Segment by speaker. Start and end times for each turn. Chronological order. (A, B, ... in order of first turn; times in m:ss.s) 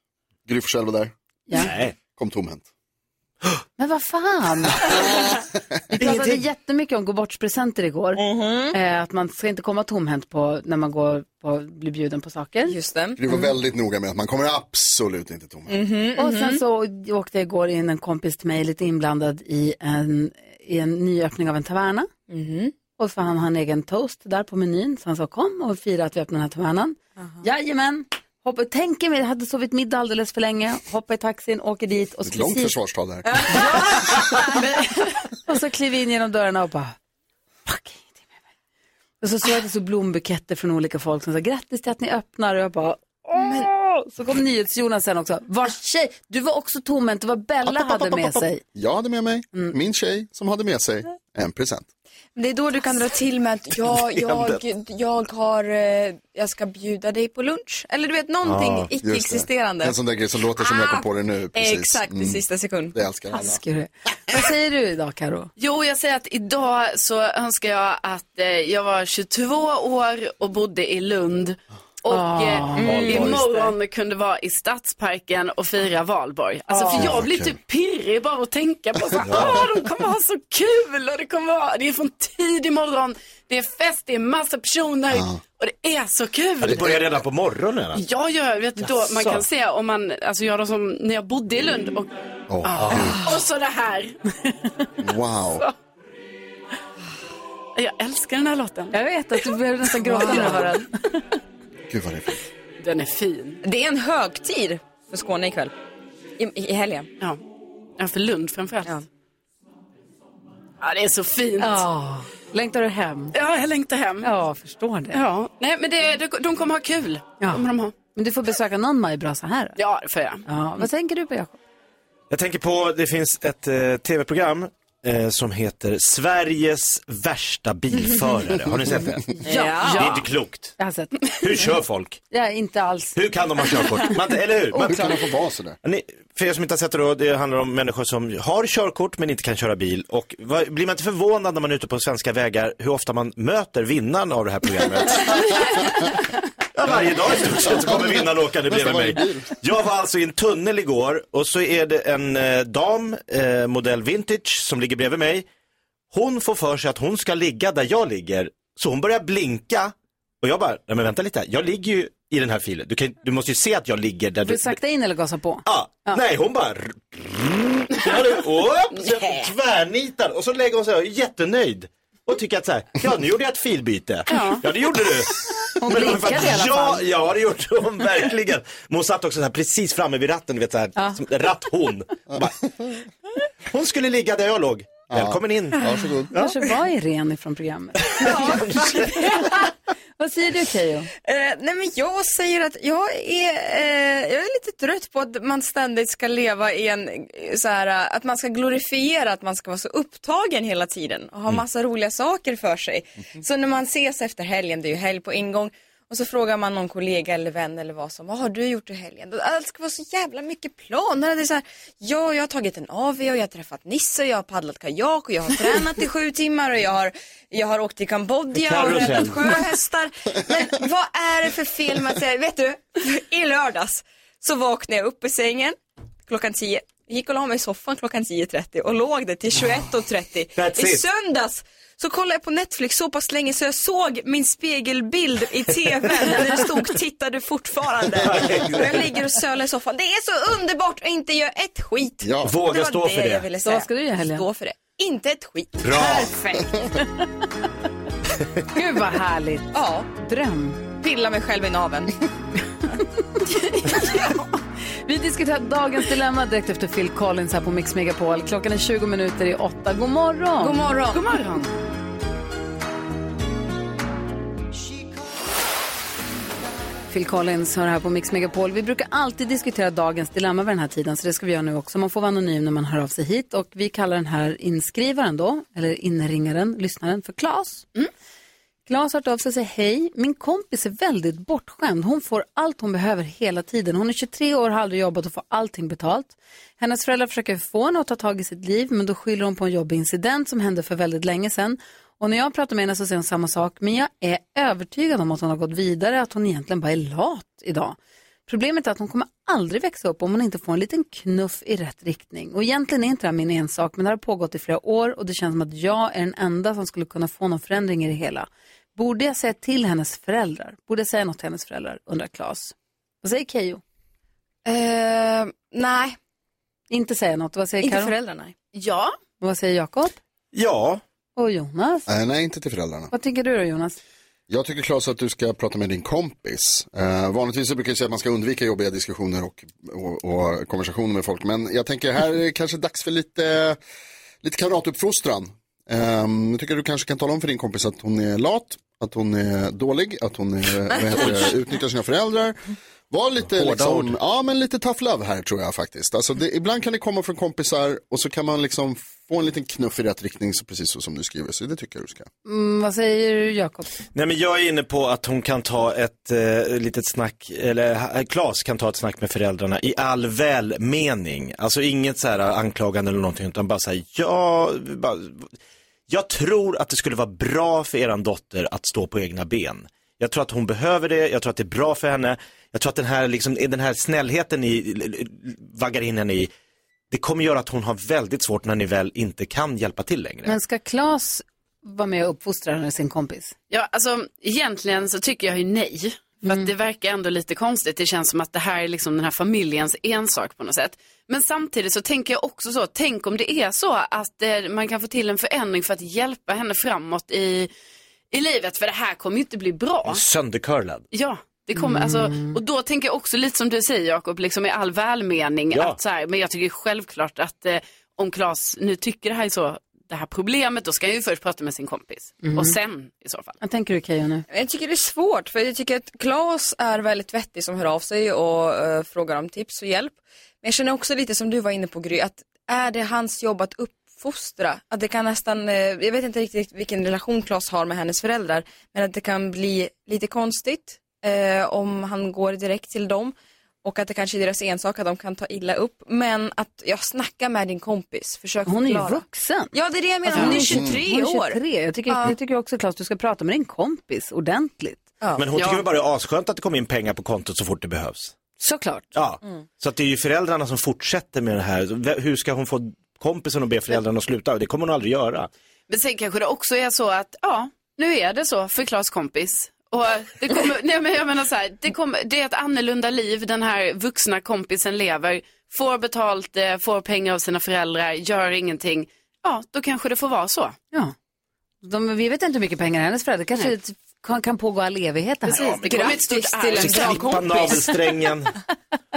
0:00.4-0:01.1 A
0:01.5-0:02.0 B
0:02.1-0:02.6 A
0:03.8-0:05.2 C
0:05.9-0:12.8 C
0:06.0-0:06.4 D
0:08.2-0:08.8 D
0:12.7-0:13.4 D
0:13.2-0:15.8 A
0:15.7-0:16.6 D
0:16.2-0:22.1 C
0:22.3-0:22.7 D
0:23.0-0:37.0 C
0:27.2-0:27.4 D
0:32.2-0:33.4 A
0:33.3-0:34.5 D
0:37.7-0:38.3 C
0:39.2-0:48.6 C
0:43.3-0:43.7 D
0:47.8-0:51.9 A
0:52.4-1:00.0 D
0:54.2-0:54.6 B
0:58.4-0:58.9 B
0:59.0-1:03.6 A
1:00.6-1:03.0 D
1:03.3-1:05.5 C
1:05.6-1:27.0 E
1:12.1-1:13.3 C
1:12.8-1:13.3 D
1:12.9-1:13.4 B
1:16.7-1:17.2 C
1:16.9-1:17.6 A
1:19.2-1:19.7 B
1:25.1-1:25.4 A
1:26.6-1:28.0 B
1:28.0-1:32.1 E
1:32.5-1:33.2 A
1:32.6-1:34.2 E
1:35.0-1:35.6 A
1:37.8-1:39.0 E
1:38.9-1:41.2 C
1:40.1-1:40.7 D
1:40.1-1:40.7 E
1:41.9-1:42.4 A
1:42.8-1:43.6 E
1:43.6-1:45.7 D
1:46.4-1:47.1 D
1:48.0-1:49.0 E
1:50.8-1:51.8 E
1:51.6-1:53.3 C
1:53.3-1:54.3 E
1:54.2-1:55.2 C
1:55.1-1:58.0 E
1:57.4-1:59.8 C
1:59.8-2:00.4 E
2:00.5-2:01.6 C
2:02.3-2:10.8 B
2:09.4-2:10.2 C
2:09.5-2:10.0 D
2:10.8-2:11.4 C
2:11.3-2:12.2 B
2:12.3-2:13.2 C
2:13.2-2:15.2 B
2:14.8-2:15.8 A
2:14.8-2:15.2 C
2:15.8-2:26.0 B
2:26.8-2:35.5 B
2:26.9-2:29.5 A
2:36.1-2:44.8 B
2:44.4-2:46.2 C
2:45.7-3:02.6 B
2:54.3-2:54.6 E
2:55.8-2:57.0 C
3:01.0-3:01.2 C
3:03.7-3:06.5 B
3:05.1-3:06.3 A
3:06.3-3:11.1 C
3:08.2-3:09.7 D
3:08.2-3:08.9 B
3:11.2-4:06.6 D
3:38.6-3:39.6 B
3:50.6-3:51.0 B
3:58.1-3:59.2 B
4:02.2-4:02.6 A
4:02.4-4:03.5 B
4:03.6-4:04.4 C
4:05.8-4:06.4 B
4:08.7-4:10.8 C
4:09.7-4:10.1 D
4:11.0-4:12.2 D
4:13.9-4:14.3 C
4:15.1-4:20.9 C
4:20.6-4:21.3 D
4:21.1-4:21.7 E
4:27.1-4:37.9 C
4:38.9-5:13.8 C
5:14.6-5:16.2 D
5:16.9-5:18.1 C
5:17.8-5:18.6 D
5:18.7-5:19.2 E
5:19.4-5:20.2 C
5:20.5-5:21.0 B
5:21.4-5:22.1 C
5:22.1-5:23.1 A
5:23.1-5:24.0 C
5:24.5-5:33.8 A
5:34.4-5:42.6 A
5:43.1-5:52.3 A
5:43.4-5:44.2 B
5:52.4-5:53.9 C
5:54.1-6:05.5 B
6:06.1-6:16.5 B
6:17.1-6:20.6 B
6:20.5-6:23.6 C
6:23.7-6:37.7 E
6:26.4-6:26.7 C
6:38.3-6:40.2 E
6:40.1-6:41.1 B
6:41.1-6:53.6 E
6:41.8-6:42.6 C
6:45.7-6:46.0 B
6:52.4-6:52.8 C
6:53.6-6:54.4 C
6:54.5-7:22.4 D
7:18.7-7:19.7 C
7:20.2-7:25.1 C
7:20.4-7:20.6 E
7:20.7-7:21.0 A
7:25.2-7:25.5 D
7:25.4-7:28.4 B
7:25.5-7:25.8 E
7:28.6-7:29.1 C
7:29.2-7:35.5 B
7:35.9-7:50.8 E
7:51.8-7:55.8 C
7:55.5-7:57.7 E
7:55.6-7:57.9 D
7:56.8-7:58.6 B